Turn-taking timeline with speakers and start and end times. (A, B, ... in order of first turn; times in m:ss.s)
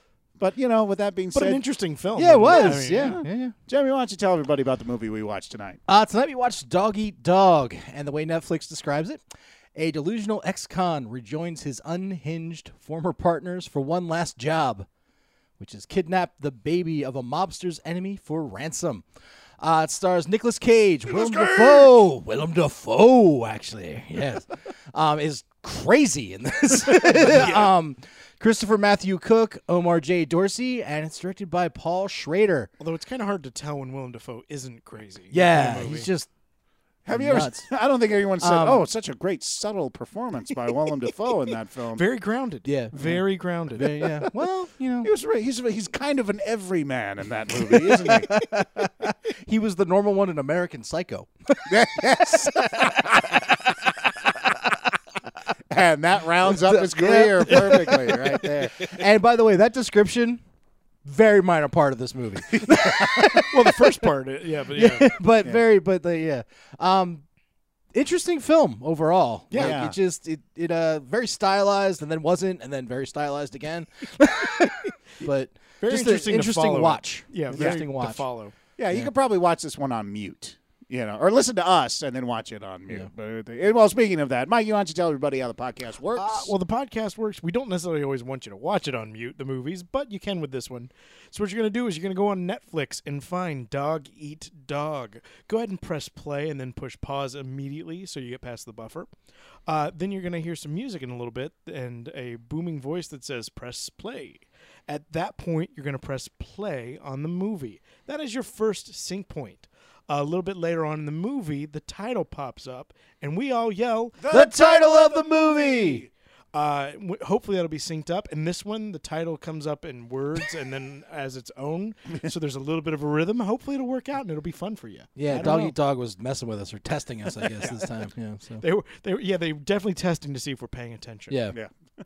0:00.4-0:01.6 A
0:01.3-0:03.2 B
0:02.1-0:03.5 C
0:02.4-0:05.8 A
0:05.9-0:09.2 C
0:09.7-0:14.9 C
0:15.6-0:19.0 C
0:19.6-0:32.7 C
0:21.1-0:22.1 A
0:27.0-0:27.7 B
0:32.8-0:36.1 B
0:35.3-0:36.3 C
0:37.0-0:42.1 A
0:37.1-0:37.7 C
0:38.4-0:38.9 C
0:41.9-0:44.2 B
0:42.6-0:43.0 C
0:42.9-0:43.2 A
0:43.7-0:45.1 C
0:45.0-0:48.3 A
0:47.6-0:52.9 C
0:51.7-0:53.4 A
0:55.7-0:58.9 A
0:56.4-1:00.4 C
1:01.0-1:04.0 C
1:02.5-1:03.5 A
1:03.5-1:05.2 B
1:04.7-1:07.2 C
1:07.9-1:18.2 C
1:09.5-1:09.9 B
1:09.5-1:10.0 A
1:15.8-1:18.5 B
1:17.5-1:17.8 A
1:18.8-1:26.5 A
1:26.2-1:39.1 B
1:39.6-1:54.3 B
1:54.2-1:56.1 A
1:54.3-1:56.1 C
1:56.5-2:05.8 B
2:05.1-2:08.6 C
2:07.6-2:07.9 A
2:08.6-2:11.4 B
2:11.3-2:11.6 C